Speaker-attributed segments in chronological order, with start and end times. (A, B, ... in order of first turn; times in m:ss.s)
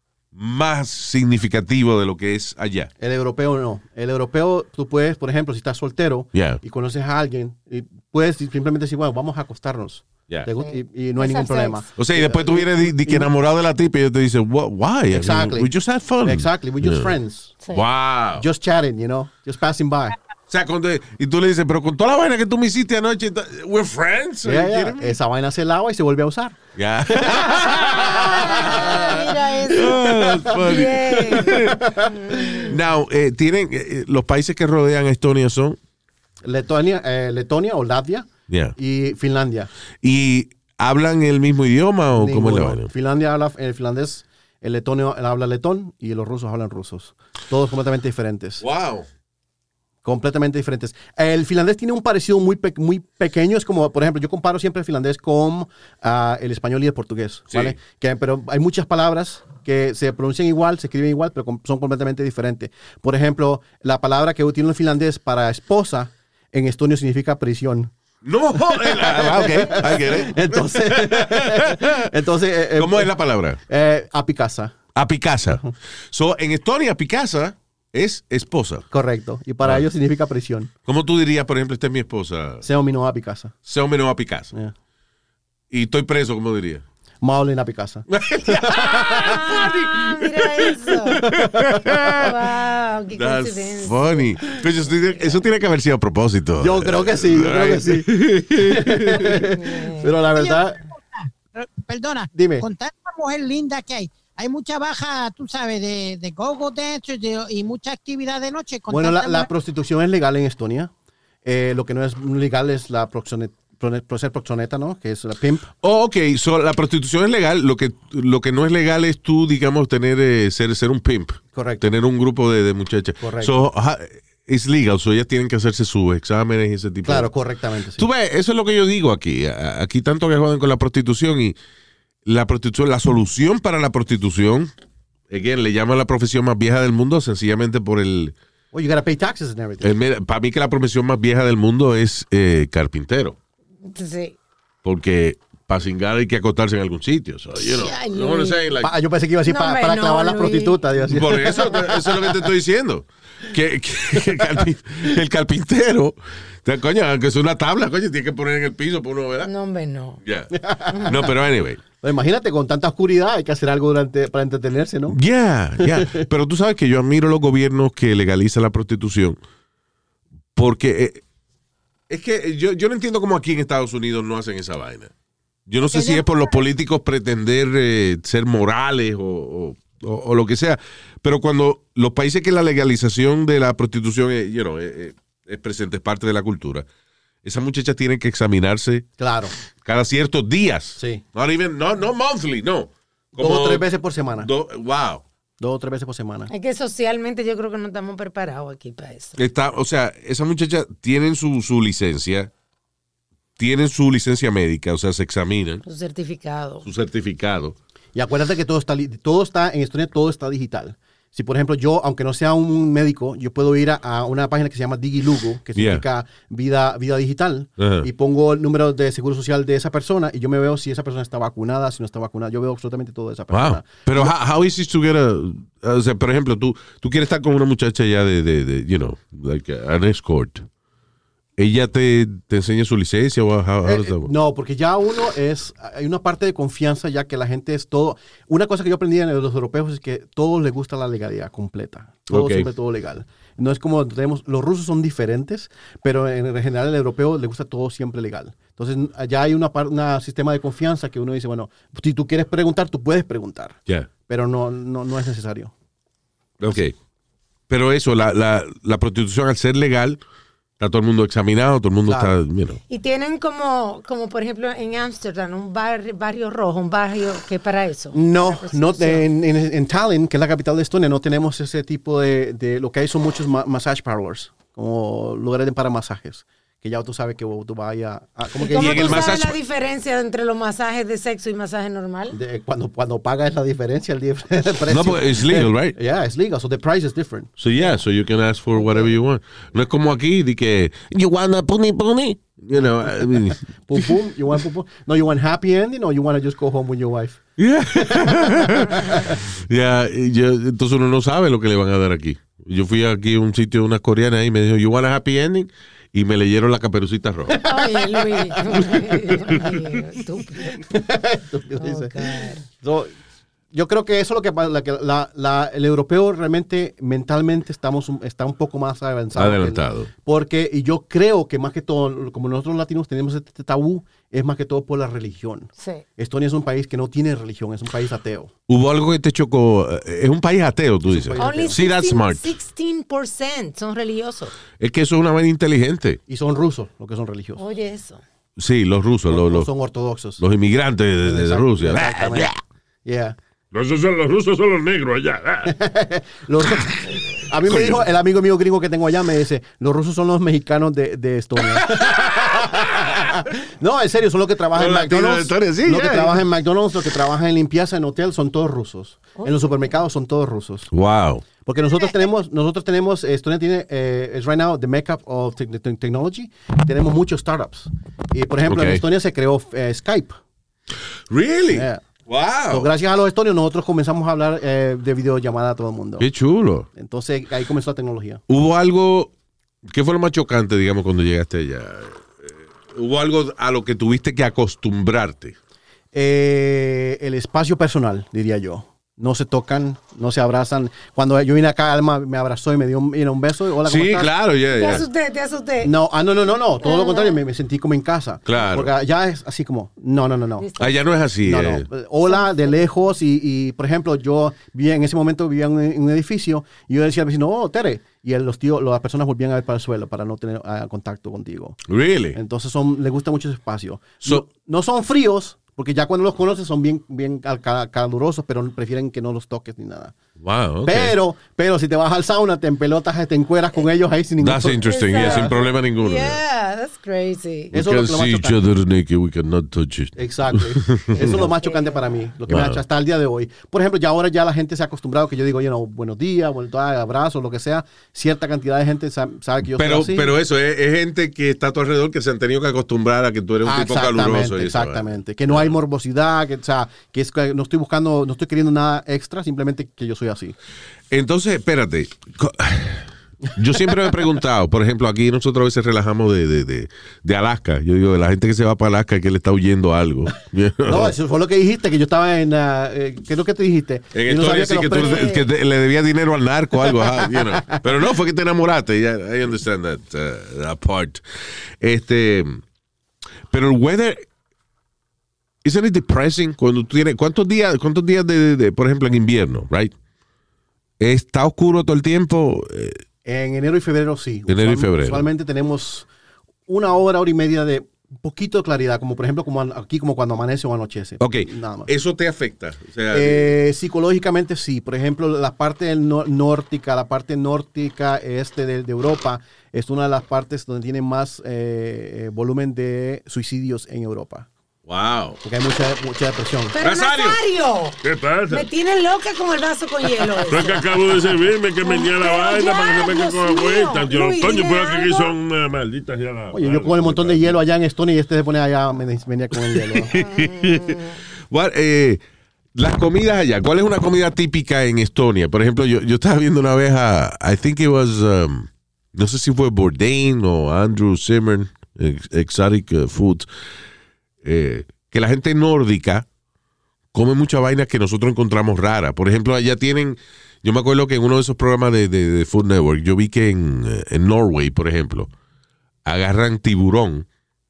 0:00.3-0:02.9 A
0:03.0-0:13.3 B
0:06.3-0:06.6 A
0:10.5-0:11.9 C
0:12.0-0:17.2 A
0:15.1-0:15.7 B
0:16.2-0:17.6 B
0:17.6-0:17.8 C
0:17.7-0:18.5 A
0:18.4-0:20.2 B
0:20.5-0:25.2 A
0:24.4-0:26.6 B
0:26.8-0:35.8 A
0:27.3-0:30.6 B
0:28.0-0:32.8 C
0:31.4-0:32.1 B
0:36.4-0:39.7 B
0:38.5-0:38.8 A
0:40.0-0:42.9 A
0:42.2-0:48.6 B
0:48.6-0:49.1 A
0:50.0-1:07.9 B
0:57.5-0:57.8 A
1:08.2-1:12.1 A
1:08.6-1:13.2 B
1:12.8-1:13.6 A
1:13.7-1:14.8 B
1:15.0-1:18.9 A
1:18.9-1:20.7 B
1:19.6-1:19.9 A
1:20.9-1:22.6 A
1:22.6-1:23.6 B
1:23.7-1:24.5 A
1:25.7-1:26.8 A
1:27.2-1:29.3 B
1:28.1-1:32.4 A
1:28.6-1:31.2 C
1:31.3-1:32.2 B
1:32.1-1:35.3 C
1:33.2-1:39.5 A
1:36.6-1:40.8 B
1:39.5-1:40.2 C
1:40.3-1:49.5 D
1:42.3-1:42.7 B
1:48.9-1:50.9 B
1:51.4-1:55.7 B
1:55.8-2:07.3 A
2:01.5-2:01.8 B
2:03.2-2:03.6 B
2:07.0-2:08.1 B
2:08.0-2:11.6 A
2:12.2-2:14.7 A
2:15.3-2:18.4 A
2:18.7-2:20.0 B
2:19.8-2:23.4 A
2:23.9-2:24.4 C
2:24.8-2:28.9 A
2:27.6-2:28.8 C
2:28.8-2:32.4 B
2:29.4-2:30.8 C
2:31.1-2:39.5 A
2:39.4-2:40.2 C
2:40.2-2:41.8 A
2:40.5-2:41.3 B
2:42.0-2:45.2 B
2:45.1-2:49.4 A
2:45.8-2:46.2 B
2:50.6-2:51.2 A
2:52.1-2:55.1 A
2:55.7-3:06.9 A
2:55.9-2:56.6 D
3:07.4-3:09.1 A
3:09.2-3:09.6 B
3:09.7-3:13.9 A
3:11.0-3:11.2 B
3:13.4-3:14.5 B
3:14.4-3:15.2 A
3:15.6-3:16.5 B
3:16.5-3:19.4 C
3:19.4-3:22.5 A
3:23.6-3:25.8 A
3:25.8-3:26.9 C
3:26.8-3:27.8 A
3:28.2-3:44.3 B
3:35.8-3:36.0 A
3:37.8-3:38.1 A
3:43.5-3:50.7 A
3:51.6-3:54.3 A
3:53.8-4:15.7 B
4:02.3-4:02.7 A
4:16.6-4:17.0 A
4:17.7-4:20.2 A
4:20.8-4:22.8 A
4:22.1-4:22.4 B
4:22.9-4:29.2 C
4:28.1-4:39.4 B
4:38.6-4:42.4 C
4:38.7-4:39.6 A
4:42.3-4:47.5 B
4:44.9-4:46.0 A
4:47.6-4:54.1 A
4:53.1-4:57.4 B
4:57.6-5:07.6 A
4:58.1-4:59.4 B
5:07.5-5:08.8 B
5:07.6-5:10.9 C
5:10.9-5:13.1 B
5:11.8-5:12.7 C
5:13.7-5:28.5 B
5:19.3-5:20.1 A
5:25.8-5:26.0 C
5:28.7-5:32.5 A
5:31.1-5:31.8 B
5:31.4-5:34.5 C
5:34.8-5:36.2 A
5:36.3-5:37.6 B
5:37.6-5:38.2 C
5:38.6-5:39.7 A
5:39.3-5:40.4 B
5:40.4-5:42.6 A
5:41.2-5:42.5 B
5:43.0-5:43.4 B
5:43.7-5:45.7 E
5:45.7-6:00.9 B
5:47.7-5:48.0 A
5:51.8-5:53.2 A
5:54.7-5:56.4 A
5:59.4-5:59.7 C
6:00.9-6:01.4 A
6:01.6-6:10.4 B
6:08.6-6:09.0 A
6:11.3-6:12.9 A
6:11.7-6:12.0 B
6:12.7-6:16.3 B
6:16.2-6:16.9 A
6:17.0-6:18.4 B
6:18.5-6:19.3 A
6:19.8-6:25.6 A
6:26.1-6:34.3 B
6:33.8-6:35.1 A
6:34.7-6:36.0 C
6:35.8-6:40.7 B
6:36.8-6:37.4 C
6:38.5-6:38.9 A
6:40.6-6:41.0 C
6:40.8-6:41.9 A
6:41.4-6:51.8 B
6:42.3-6:42.8 C
6:51.9-6:52.4 A
6:52.3-7:00.1 B
7:00.4-7:01.2 A
7:00.8-7:05.6 B
7:04.4-7:06.4 A
7:04.8-7:07.7 C
7:07.7-7:08.6 B
7:07.7-7:11.5 A
7:10.2-7:20.3 B
7:11.2-7:12.1 C
7:12.5-7:12.8 A
7:19.6-7:25.8 A
7:23.6-7:30.6 B
7:31.1-7:41.2 A
7:40.9-7:45.4 B
7:44.1-7:51.2 A
7:45.0-7:45.4 C
7:47.4-7:47.8 B
7:51.8-7:52.6 A
7:53.5-7:54.3 A
7:55.6-7:59.9 A
8:01.0-8:03.0 A
8:03.2-8:06.1 B
8:04.5-8:05.3 A
8:06.7-8:11.9 B
8:11.2-8:13.6 A
8:13.1-8:24.5 B
8:24.9-8:25.4 A
8:25.4-8:26.8 B
8:26.7-8:30.9 C
8:26.8-8:27.4 A
8:28.0-8:28.7 E
8:30.5-8:37.6 E
8:31.8-8:35.3 C
8:36.5-8:40.2 B
8:39.7-8:42.2 A
8:40.2-8:41.2 C
8:42.8-8:53.5 A
8:54.4-8:56.3 A
8:57.1-9:05.3 A
9:06.0-9:07.3 A